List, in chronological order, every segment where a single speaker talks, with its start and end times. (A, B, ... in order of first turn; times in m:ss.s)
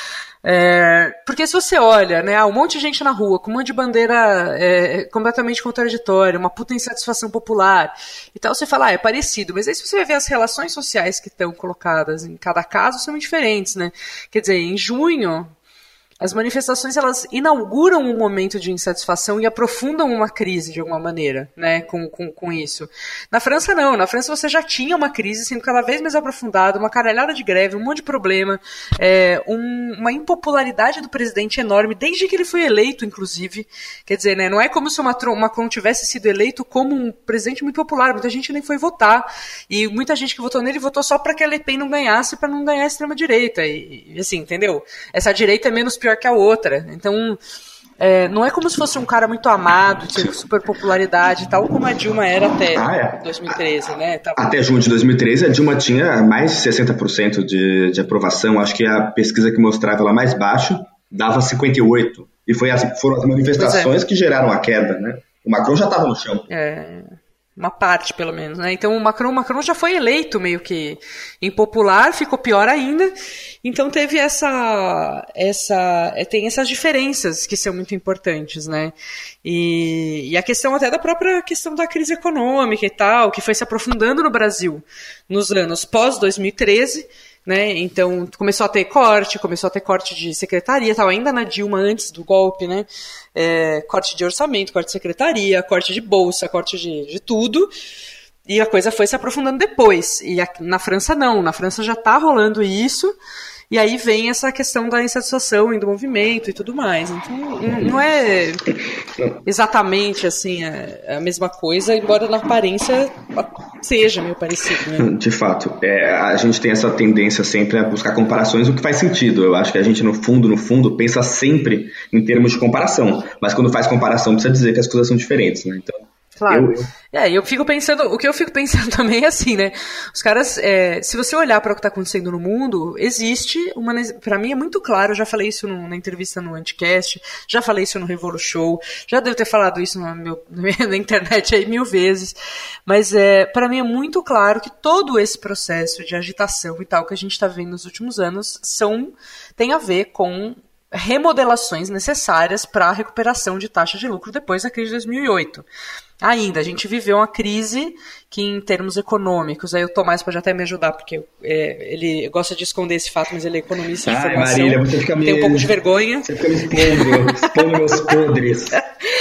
0:00.4-0:15.5 A
0:16.2-0:47.4 A
0:48.0-0:54.6 A
0:52.7-0:53.6 B
0:54.4-1:06.5 B
1:03.6-1:03.9 A
1:06.5-1:13.1 A
1:13.6-1:37.7 A
1:38.4-1:43.1 A
1:43.7-1:48.6 A
1:49.4-1:55.1 A
1:54.9-2:06.0 B
2:06.4-2:22.4 A
2:06.5-2:06.9 B
2:22.9-2:35.6 A
2:36.2-2:47.5 A
2:44.0-2:48.8 B